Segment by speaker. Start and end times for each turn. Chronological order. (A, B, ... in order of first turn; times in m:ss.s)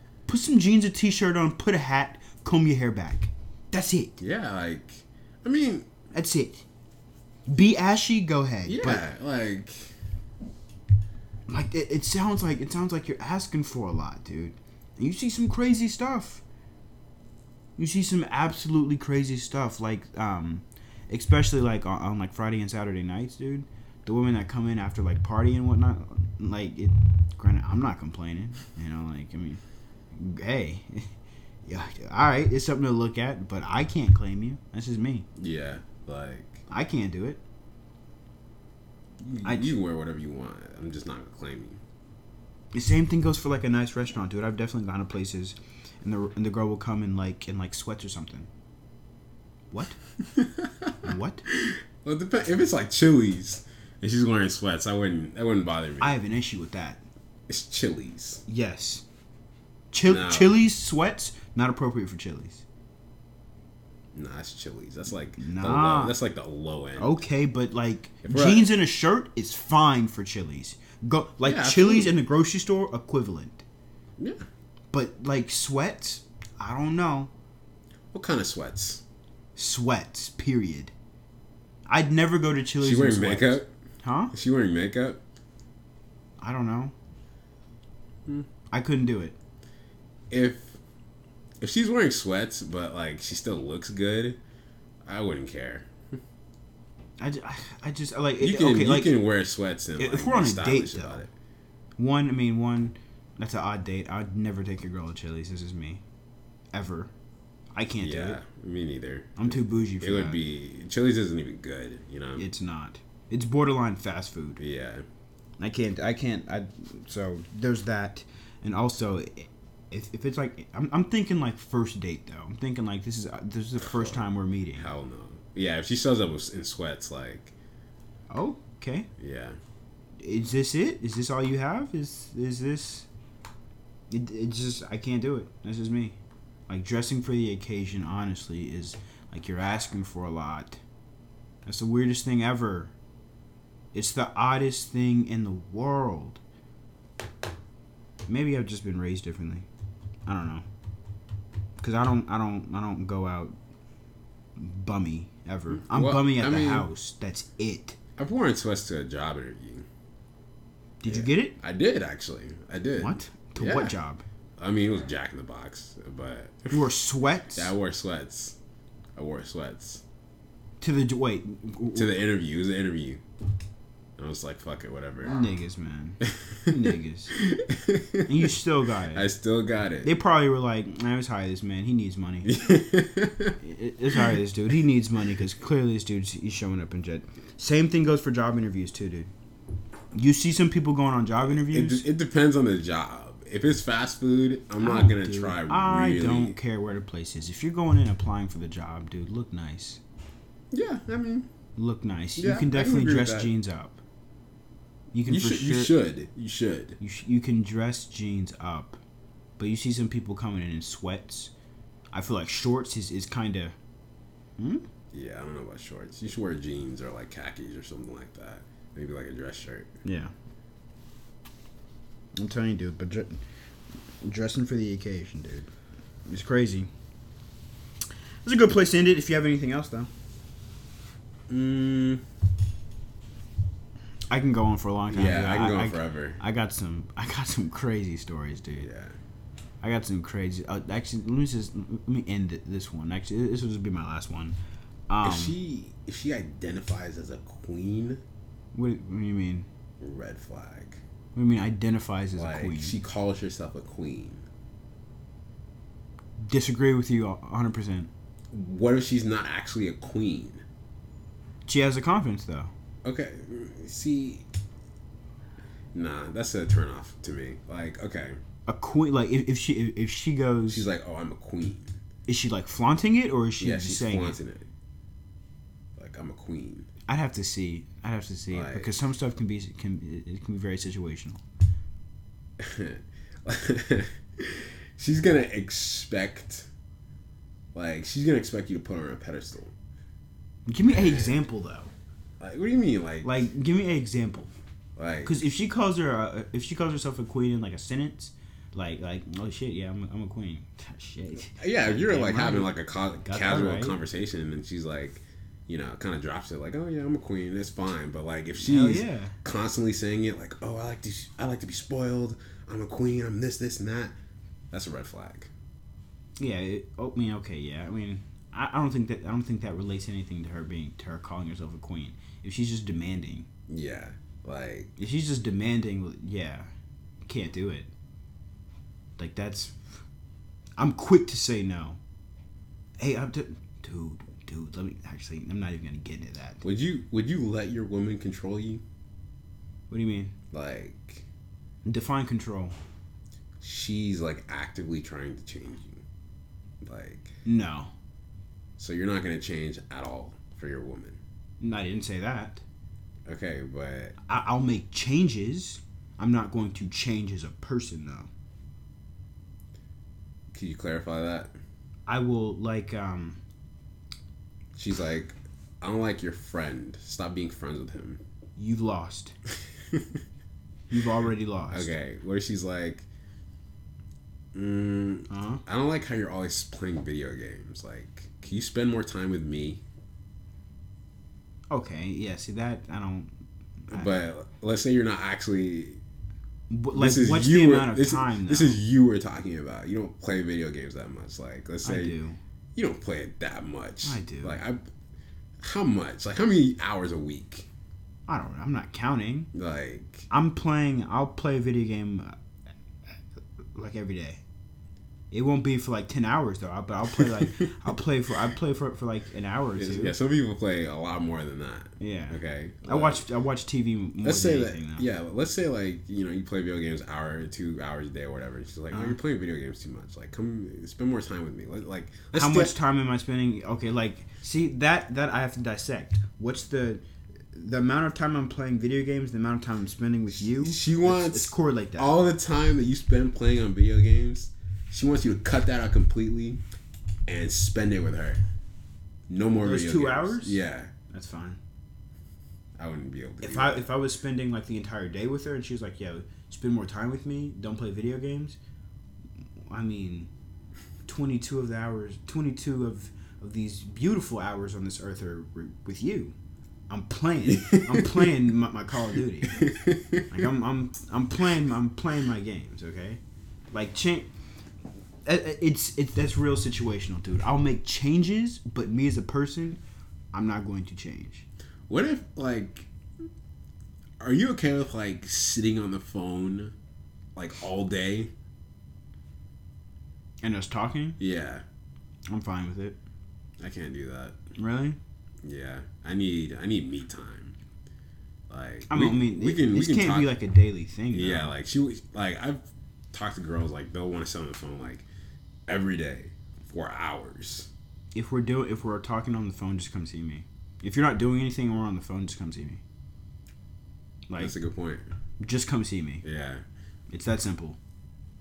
0:00.3-0:04.2 A
0:04.2-0:05.9 B
0:06.1-0:06.6 A
0:07.5-0:09.0 A
0:08.6-0:09.9 B
0:11.5-0:16.4 A
0:17.8-0:29.6 A
0:30.1-0:31.1 A
0:31.6-0:35.3 A
0:35.4-0:36.6 B
0:36.7-0:37.4 A
0:39.2-0:41.8 B
0:39.4-0:39.8 A
0:42.7-0:48.5 A
0:49.7-0:50.0 A
0:50.2-0:56.2 B
0:51.0-0:51.4 A
0:56.0-0:57.0 A
0:57.5-0:58.4 B
0:58.5-0:59.0 A
0:59.9-1:02.6 A
1:00.1-1:00.6 B
1:04.1-1:07.2 B
1:05.4-1:06.2 A
1:07.0-1:13.6 A
1:08.2-1:08.7 B
1:11.4-1:12.2 B
1:14.2-1:14.4 B
1:14.9-1:17.3 A
1:18.1-1:19.0 B
1:19.6-1:20.9 A
1:21.9-1:24.3 A
1:22.8-1:23.7 B
1:24.3-1:25.2 B
1:26.4-1:26.9 A
1:28.7-1:29.4 A
1:30.3-1:30.8 B
1:31.6-1:34.4 B
1:35.0-1:36.2 B
1:37.2-1:39.2 A
1:38.4-1:41.3 B
1:40.0-1:41.2 A
1:42.0-1:46.0 A
1:46.7-1:47.1 A
1:47.8-1:48.4 A
1:48.0-1:52.4 B
1:49.4-1:50.4 A
1:52.4-1:54.6 A
1:54.6-1:55.0 B
1:55.6-2:04.9 A
2:03.8-2:07.5 B
2:08.3-2:09.1 A
2:09.2-2:09.6 B
2:10.2-2:13.1 A
2:14.1-2:16.2 A
2:16.7-2:20.8 A
2:21.6-2:22.9 A
2:23.9-2:26.4 A
2:28.3-2:29.7 A
2:30.3-2:30.6 A
2:31.8-2:33.6 A
2:34.6-2:38.0 A
2:35.7-2:36.9 B
2:38.2-2:39.9 B
2:41.0-2:41.6 A
2:41.1-2:44.0 B
2:43.0-2:44.2 A
2:44.6-2:46.8 B
2:46.7-2:47.7 A
2:47.6-2:48.6 B
2:49.2-2:50.0 B
2:50.8-2:52.2 A
2:52.0-2:53.2 B
2:54.2-2:55.4 B
2:55.3-2:57.4 A
2:56.2-2:56.8 B
2:57.3-2:58.5 B
2:58.3-2:59.3 A
2:59.1-3:00.1 B
3:00.0-3:02.6 A
3:02.4-3:03.6 B
3:03.6-3:09.3 A
3:10.1-3:12.0 A
3:11.5-3:16.6 B
3:14.8-3:20.0 A
3:20.7-3:21.5 B
3:21.8-3:24.0 A
3:22.4-3:23.5 B
3:25.1-3:25.9 A
3:25.3-3:27.0 B
3:27.0-3:29.0 A
3:29.6-3:31.5 A
3:32.1-3:33.8 A
3:34.6-3:34.8 A
3:35.1-3:39.9 B
3:40.0-3:40.3 A
3:42.4-3:43.4 A
3:44.2-3:45.7 A
3:46.3-3:46.9 A
3:48.4-3:50.1 A
3:51.5-3:52.2 B
3:54.3-3:58.9 A
3:55.1-3:56.4 B
3:58.8-3:59.2 B
3:59.8-4:04.6 A
4:05.1-4:05.6 A
4:05.2-4:08.2 B
4:08.7-4:09.7 A
4:10.0-4:11.0 B
4:11.4-4:13.0 A
4:12.4-4:14.5 B
4:16.4-4:18.1 A
4:18.5-4:20.6 B
4:21.7-4:22.7 A
4:23.0-4:24.5 B
4:25.9-4:28.4 B
4:28.7-4:30.9 A
4:30.7-4:32.0 B
4:32.3-4:34.4 A
4:33.6-4:34.7 B
4:36.0-4:36.9 B
4:37.1-4:41.4 A
4:38.5-4:38.9 B
4:42.6-4:46.7 B
4:47.7-4:49.7 B
4:50.7-4:51.9 A
4:50.9-4:51.4 B
4:52.4-4:53.4 B
4:53.2-4:54.5 A
4:55.0-4:55.4 B
4:55.2-5:02.7 A
5:01.6-5:14.1 B
5:03.2-5:04.0 A
5:08.6-5:09.4 A
5:14.7-5:15.5 B
5:16.4-5:23.5 A
5:23.7-5:24.9 B
5:25.0-5:26.7 A
5:27.2-5:27.9 A
5:29.2-5:29.8 A
5:30.8-5:32.0 A
5:33.0-5:36.6 A
5:36.6-5:38.8 B
5:39.9-5:40.3 A
5:40.5-5:41.3 B
5:41.8-5:42.8 A
5:43.6-5:46.0 B
5:46.8-5:47.3 B
5:47.4-5:47.9 A
5:48.8-5:51.2 B
5:51.6-5:52.6 A
5:53.3-5:54.2 B
5:54.3-5:58.3 A
6:00.5-6:01.5 B
6:02.1-6:03.4 A
6:04.8-6:08.2 B
6:08.6-6:09.3 A
6:09.9-6:10.2 B
6:10.9-6:11.9 A
6:11.7-6:13.1 B
6:14.5-6:19.8 B
6:15.3-6:15.6 A
6:21.7-6:23.3 A
6:23.9-6:24.1 A
6:23.9-6:26.0 B
6:26.7-6:28.8 A
6:26.9-6:32.2 B
6:31.8-6:32.4 A
6:32.8-6:34.8 B
6:34.0-6:34.6 A
6:35.6-6:37.7 B
6:38.3-6:39.5 A
6:39.5-6:40.3 B
6:40.3-6:42.4 A
6:43.8-6:44.4 A
6:45.3-6:50.2 A
6:47.2-6:47.5 B
6:49.8-6:53.2 B
6:52.0-6:55.0 A
6:54.2-7:02.8 B
6:58.9-6:59.2 A
7:02.3-7:12.2 A
7:10.3-7:16.6 B
7:17.3-7:18.4 B
7:19.3-7:20.9 B
7:19.6-7:21.6 A
7:22.8-7:23.9 B
7:23.4-7:28.6 A
7:29.7-7:30.3 A
7:31.1-7:36.4 A
7:36.9-7:39.7 A
7:37.5-7:38.3 B
7:39.4-7:40.3 B
7:40.3-7:43.2 A
7:43.7-7:44.3 A
7:45.2-7:49.8 A
7:50.3-7:51.5 A
7:51.9-7:52.9 B
7:54.2-7:56.7 B
7:57.4-7:58.3 B
8:00.4-8:01.2 A
8:01.2-8:01.6 B
8:02.3-8:03.0 A
8:03.6-8:04.4 B
8:04.6-8:05.0 A
8:05.4-8:07.6 B
8:08.5-8:10.4 B
8:08.9-8:11.5 A
8:11.1-8:15.1 B
8:15.7-8:17.7 B
8:18.2-8:22.8 A
8:24.4-8:25.1 B
8:25.4-8:26.2 A
8:26.2-8:26.6 B
8:27.1-8:27.8 A